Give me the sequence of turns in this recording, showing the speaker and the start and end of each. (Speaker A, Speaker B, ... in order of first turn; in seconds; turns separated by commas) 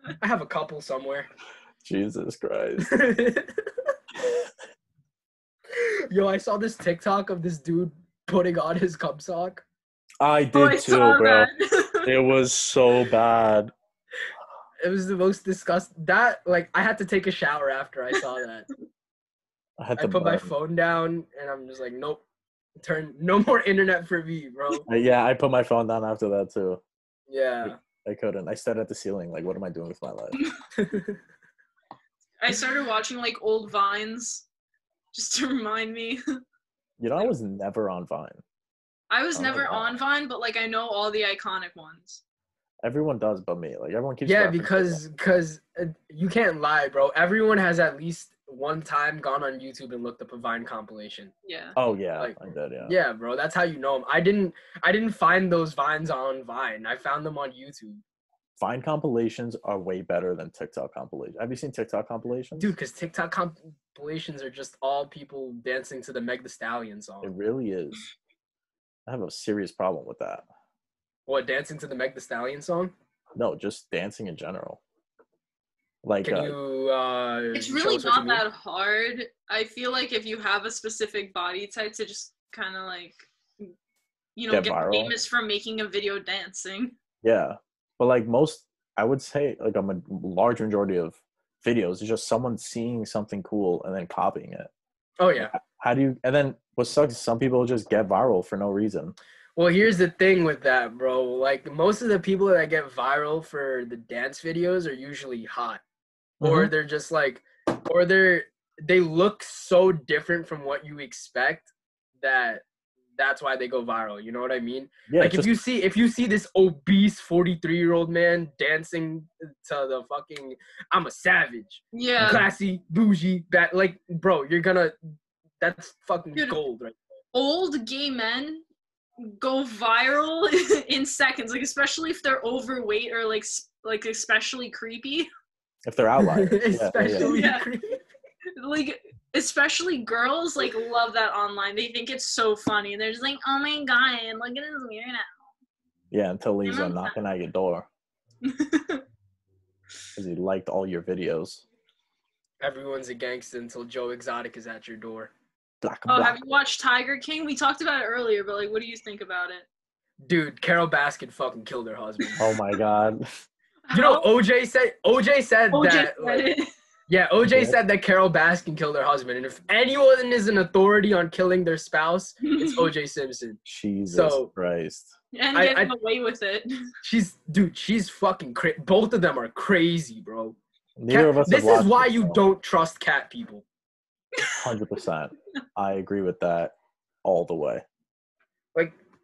Speaker A: 0.2-1.3, Speaker B: 1.8-2.9, Speaker A: 2.8-3.7, Speaker A: 5.7-9.6, Speaker B: 10.2-11.5, Speaker C: 10.5-12.1, Speaker B: 12.0-13.7, Speaker A: 14.8-18.7, Speaker B: 19.8-20.5, Speaker A: 20.0-22.2, Speaker A: 22.8-24.9, Speaker B: 24.9-26.8, Speaker A: 27.3-27.8, Speaker B: 27.6-30.4, Speaker A: 30.8-31.2, Speaker C: 32.4-34.5, Speaker C: 35.1-36.2, Speaker B: 37.0-38.4, Speaker C: 39.1-42.2, Speaker B: 39.4-40.0, Speaker B: 42.8-45.0, Speaker A: 44.2-51.3, Speaker C: 51.4-51.8, Speaker B: 51.8-53.0, Speaker A: 52.2-58.0, Speaker B: 58.6-62.7, Speaker A: 62.6-67.3, Speaker B: 67.2-68.0, Speaker B: 69.1-70.5, Speaker A: 71.3-72.9, Speaker B: 73.4-74.8, Speaker B: 76.0-76.5, Speaker A: 76.2-78.4, Speaker C: 77.5-83.7, Speaker C: 84.4-87.0, Speaker B: 84.5-85.1, Speaker B: 87.2-94.7, Speaker A: 95.2-95.5, Speaker B: 95.4-99.2, Speaker A: 99.6-105.8, Speaker B: 106.4-106.7, Speaker A: 106.4-112.6, Speaker A: 113.2-125.0, Speaker B: 115.1-115.5, Speaker C: 121.9-122.5, Speaker B: 122.2-122.5, Speaker A: 125.6-127.0, Speaker C: 127.3-128.6, Speaker C: 129.2-135.3, Speaker B: 135.9-137.4, Speaker A: 136.2-138.0, Speaker C: 137.2-137.7, Speaker C: 138.6-145.4, Speaker B: 146.1-147.9, Speaker C: 146.7-147.2, Speaker C: 148.4-149.0, Speaker B: 150.2-151.6, Speaker A: 152.6-155.3, Speaker B: 155.8-156.5, Speaker C: 156.1-159.7, Speaker A: 160.3-162.4, Speaker B: 162.4-163.2, Speaker C: 163.9-164.3, Speaker A: 163.9-166.5, Speaker C: 165.7-166.7, Speaker A: 167.1-174.5, Speaker B: 167.5-167.8, Speaker C: 172.5-172.9, Speaker B: 173.7-175.1, Speaker C: 175.3-176.7, Speaker A: 175.5-175.9, Speaker A: 177.0-180.6, Speaker B: 181.0-182.4, Speaker A: 181.1-183.7, Speaker C: 184.4-184.6, Speaker B: 184.6-187.8